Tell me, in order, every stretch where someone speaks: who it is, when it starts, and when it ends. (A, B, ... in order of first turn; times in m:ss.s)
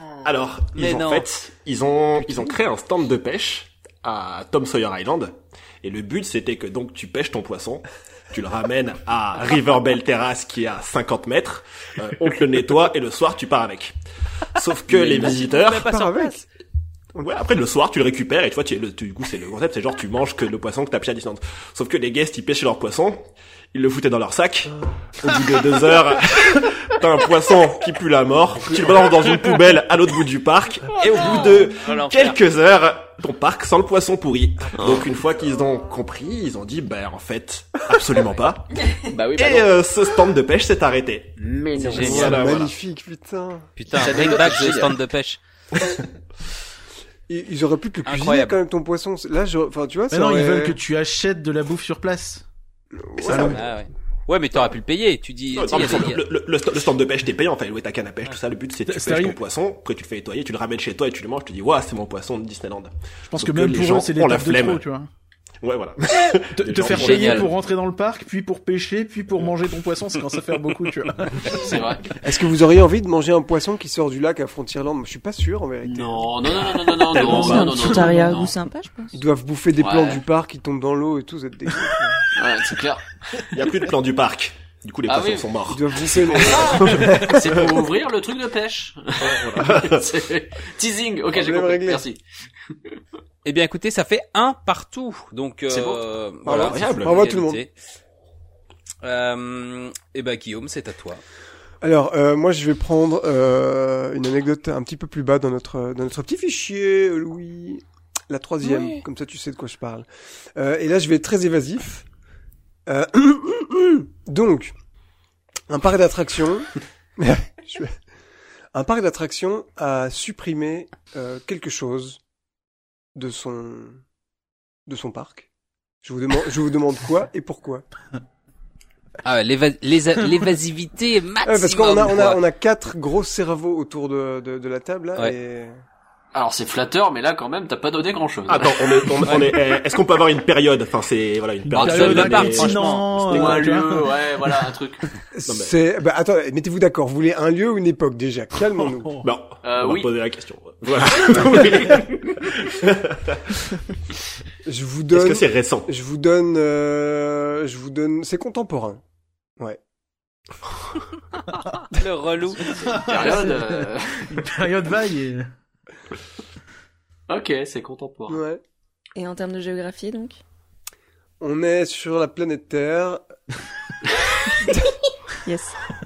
0:00.2-0:14.0 A
0:00.7-0:01.3 B
0:14.5-0:15.9 A
0:15.1-0:16.4 B
0:15.1-0:16.4 C
0:17.2-0:38.8 A
0:31.1-0:32.4 B
0:39.0-0:39.7 D
0:39.3-0:42.7 A
0:41.4-0:42.4 D
0:41.8-0:43.7 C
0:41.9-0:42.4 B
0:43.8-0:45.4 B
0:43.9-0:45.0 D
0:47.3-0:50.8 C
0:48.0-0:48.6 B
0:50.1-0:52.4 E
0:53.0-0:53.6 C
0:53.3-0:56.2 B
0:55.5-1:04.8 A
0:58.9-0:59.4 E
1:03.3-1:05.1 E
1:05.6-1:07.5 A
1:06.5-1:11.8 E
1:06.8-1:07.5 B
1:11.5-1:12.1 D
1:12.2-1:17.7 C
1:15.8-1:18.5 D
1:17.2-1:18.1 E
1:17.2-1:19.1 F
1:19.1-1:22.3 C
1:19.8-1:20.2 D
1:22.3-1:23.4 D
1:23.5-1:27.6 A
1:25.1-1:25.5 D
1:25.7-1:27.5 C
1:26.3-1:32.9 D
1:29.2-1:30.0 A
1:31.3-1:32.0 C
1:33.4-1:37.7 B
1:35.7-1:36.0 D
1:36.4-1:37.6 C
1:36.5-1:37.2 A
1:39.0-1:41.2 B
1:41.8-1:52.0 C
1:48.6-1:49.0 F
1:52.9-1:54.7 C
1:55.7-1:58.0 C
1:58.7-2:02.2 C
2:03.1-2:04.0 C
2:04.9-2:05.5 C
2:06.0-2:07.8 C
2:09.2-2:12.4 B
2:11.4-2:15.8 C
2:16.3-2:19.0 D
2:18.5-2:23.7 A
2:21.6-2:24.1 E
2:21.7-2:23.1 B
2:23.3-2:25.0 D
2:25.3-2:29.1 C
2:25.4-2:25.7 A
2:29.0-2:29.3 E
2:29.2-2:33.6 A
2:29.6-2:30.1 D
2:31.6-2:32.0 D
2:34.6-2:39.0 C
2:35.1-2:35.9 A
2:41.8-2:43.1 B
2:42.8-2:45.5 E
2:43.0-2:44.4 D
2:47.3-2:48.4 D
2:48.3-2:48.6 C
2:49.2-2:50.4 F
2:51.4-2:53.2 C
2:54.7-2:54.9 C
2:55.4-2:55.7 F